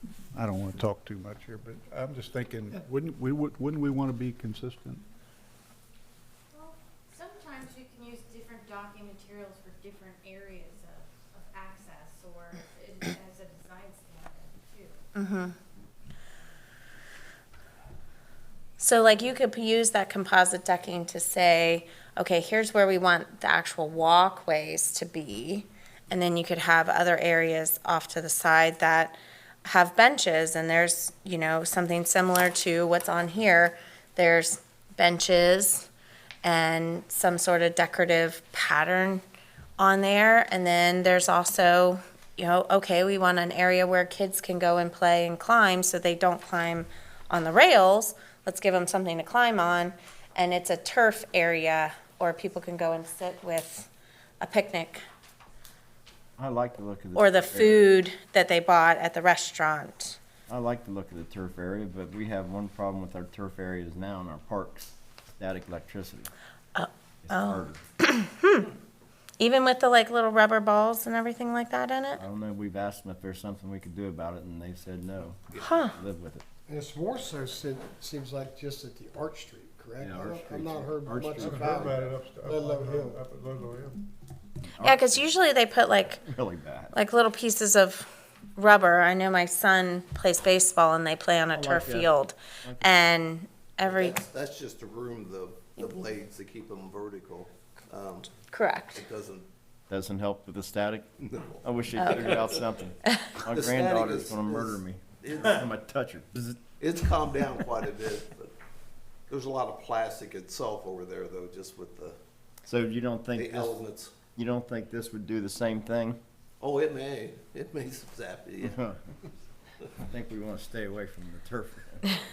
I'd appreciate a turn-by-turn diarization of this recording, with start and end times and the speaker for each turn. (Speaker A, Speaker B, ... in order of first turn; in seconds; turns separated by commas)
Speaker A: 0.3-5.0, Speaker B: 6.5-15.1, Speaker C: 15.1-15.5, Speaker C: 18.8-35.9, Speaker C: 36.4-39.2, Speaker C: 39.8-53.9, Speaker C: 54.4-55.0, Speaker D: 56.4-57.9, Speaker C: 57.1-60.2, Speaker D: 60.5-66.3, Speaker C: 66.7-68.7, Speaker D: 67.2-67.8, Speaker C: 69.4-72.2, Speaker D: 72.2-76.4, Speaker C: 75.5-75.9, Speaker E: 76.7-83.2, Speaker D: 80.0-82.1, Speaker A: 81.4-84.0, Speaker D: 84.6-85.2, Speaker C: 84.8-86.2, Speaker D: 86.3-86.9, Speaker C: 86.9-94.2, Speaker D: 91.5-92.1, Speaker D: 92.6-93.1, Speaker F: 93.8-98.4, Speaker C: 98.5-99.0, Speaker F: 98.9-99.5, Speaker D: 99.9-101.1, Speaker F: 101.2-101.6, Speaker D: 101.6-106.6, Speaker C: 102.0-102.4, Speaker C: 103.0-103.4, Speaker F: 103.5-105.6, Speaker F: 106.8-108.5, Speaker F: 109.3-112.2, Speaker D: 112.6-113.8, Speaker F: 113.3-114.1, Speaker D: 114.3-116.2, Speaker F: 116.6-118.8, Speaker D: 118.6-119.0, Speaker D: 120.1-122.0